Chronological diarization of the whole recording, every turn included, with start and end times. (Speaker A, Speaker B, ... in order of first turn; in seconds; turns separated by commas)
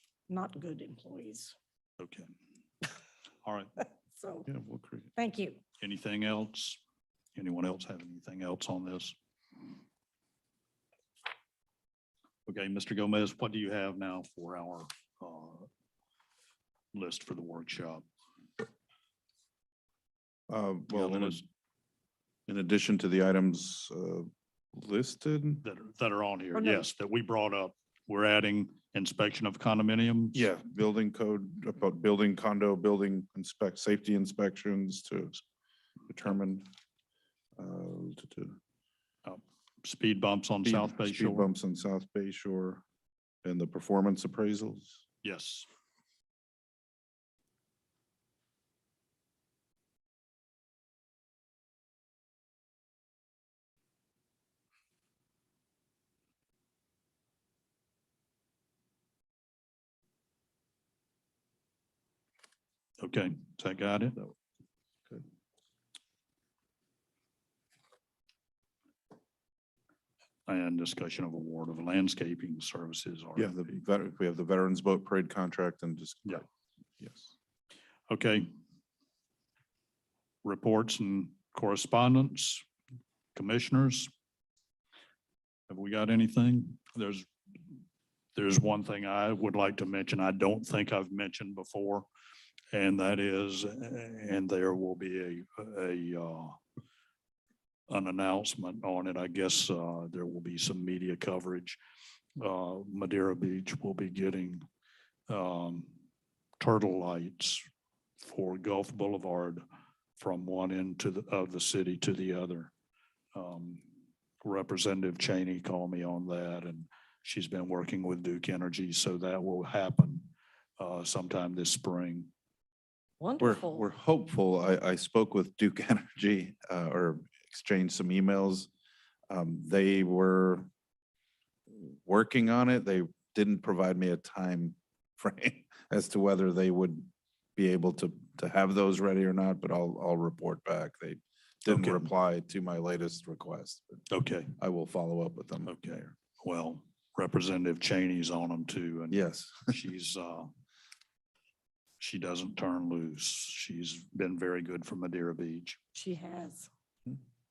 Speaker A: 0.3-1.6, Speaker B: 2.0-2.3, Speaker B: 3.4-3.8, Speaker A: 4.2-4.5, Speaker C: 4.5-5.1, Speaker A: 5.2-5.6, Speaker B: 5.8-6.8, Speaker B: 7.3-9.2, Speaker B: 12.5-15.7, Speaker B: 16.9-18.1, Speaker C: 20.5-21.4, Speaker B: 20.9-21.4, Speaker C: 22.5-25.6, Speaker B: 25.6-30.5, Speaker A: 26.6-26.9, Speaker C: 30.3-35.4, Speaker C: 36.1-36.6, Speaker C: 37.6-38.6, Speaker B: 39.2-41.5, Speaker C: 40.6-42.8, Speaker C: 43.4-45.0, Speaker B: 45.2-45.7, Speaker B: 63.0-64.2, Speaker B: 70.5-73.8, Speaker C: 73.3-76.5, Speaker C: 77.0-77.3, Speaker B: 78.1-78.5, Speaker B: 80.4-82.7, Speaker B: 83.3-84.1, Speaker B: 85.7-87.3, Speaker B: 88.3-92.1, Speaker B: 92.7-96.6, Speaker B: 97.9-101.8, Speaker B: 102.4-104.6, Speaker B: 105.3-105.9, Speaker B: 106.6-107.7, Speaker B: 108.2-109.6, Speaker B: 110.2-112.7, Speaker B: 113.3-113.8, Speaker B: 114.4-120.3, Speaker B: 120.8-122.3, Speaker A: 123.2-123.9, Speaker C: 123.4-128.7, Speaker C: 129.3-130.7, Speaker C: 131.7-144.1, Speaker B: 141.6-142.1, Speaker B: 144.1-144.5, Speaker C: 144.6-146.1, Speaker B: 145.6-150.5, Speaker C: 149.1-149.7, Speaker B: 152.0-155.8, Speaker A: 155.9-156.7